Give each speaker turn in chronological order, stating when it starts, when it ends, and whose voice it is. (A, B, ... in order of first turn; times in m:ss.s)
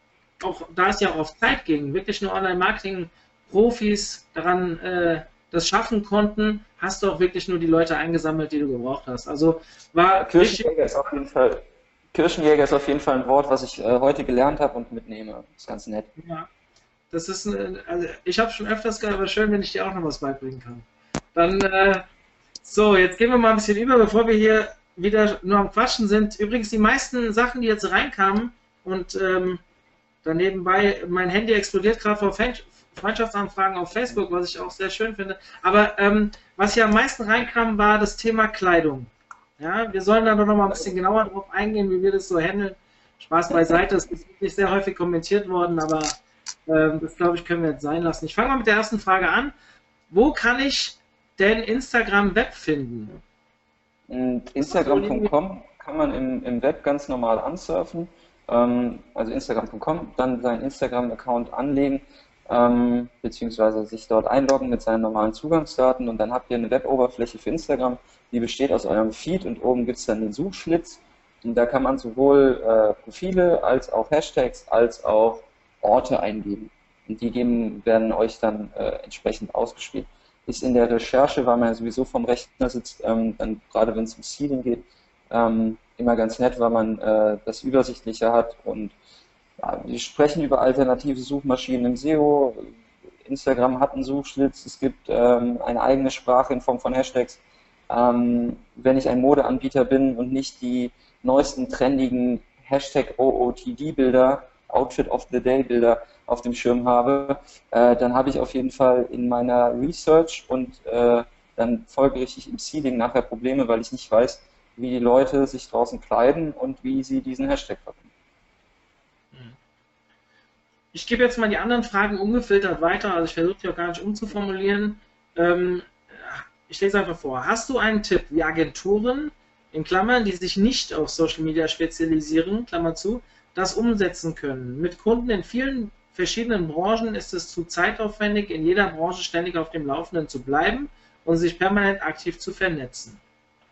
0:00.4-0:10.7 A
0:10.2-0:11.6 B
0:12.1-0:16.1 B
0:16.2-0:16.5 A
0:17.1-0:22.1 A
0:22.6-0:29.6 A
0:30.2-0:49.5 A
0:50.1-0:53.2 A
0:54.1-1:29.0 B
0:54.6-0:55.3 A
1:29.6-1:32.7 B
1:33.2-1:58.1 B
2:00.9-2:23.2 A